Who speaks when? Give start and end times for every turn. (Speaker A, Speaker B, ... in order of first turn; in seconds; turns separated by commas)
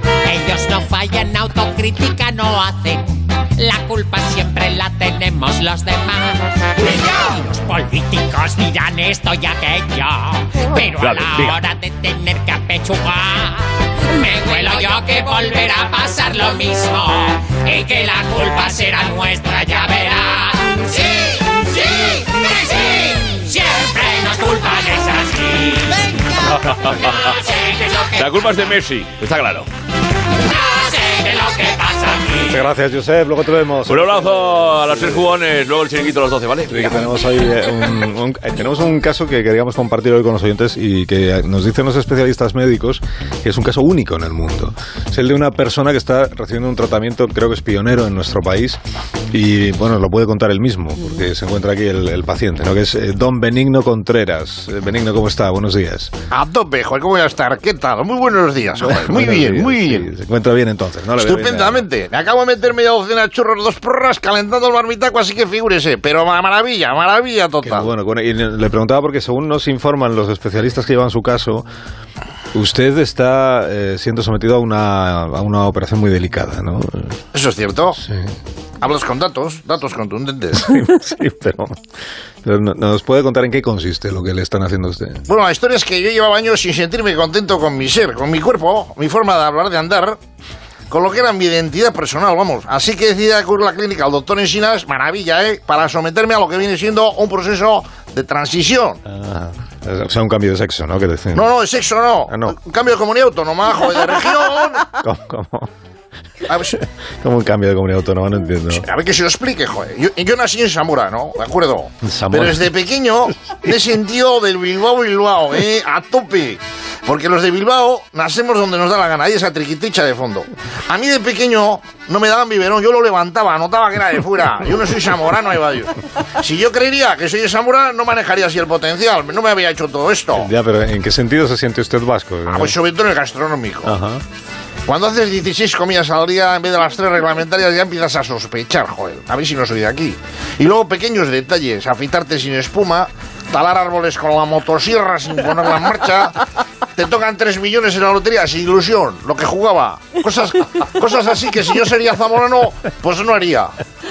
Speaker A: 0.2-26.2, Speaker B: 10.9-11.6, Speaker B: 26.5-27.3, Speaker A: 27.2-28.5, Speaker B: 28.1-29.7, Speaker A: 30.5-32.6, Speaker C: 32.4-35.1, Speaker B: 33.9-37.0, Speaker C: 36.7-48.8, Speaker C: 49.3-56.1, Speaker D: 56.3-60.1, Speaker C: 58.8-61.9, Speaker D: 61.2-67.9, Speaker C: 67.6-71.7, Speaker C: 72.5-77.2, Speaker D: 77.3-78.0, Speaker C: 78.0-78.3, Speaker D: 78.8-80.7, Speaker C: 80.5-81.8, Speaker C: 82.4-85.2, Speaker D: 85.3-90.2, Speaker D: 90.9-99.0, Speaker C: 99.0-101.5, Speaker D: 101.3-104.9, Speaker C: 102.3-102.6, Speaker C: 105.0-105.7, Speaker D: 106.5-106.8, Speaker C: 106.7-108.9, Speaker D: 108.7-130.5, Speaker C: 112.0-112.7, Speaker C: 130.3-132.8, Speaker D: 132.5-134.0, Speaker C: 133.8-134.2, Speaker D: 134.9-146.4, Speaker D: 147.0-153.7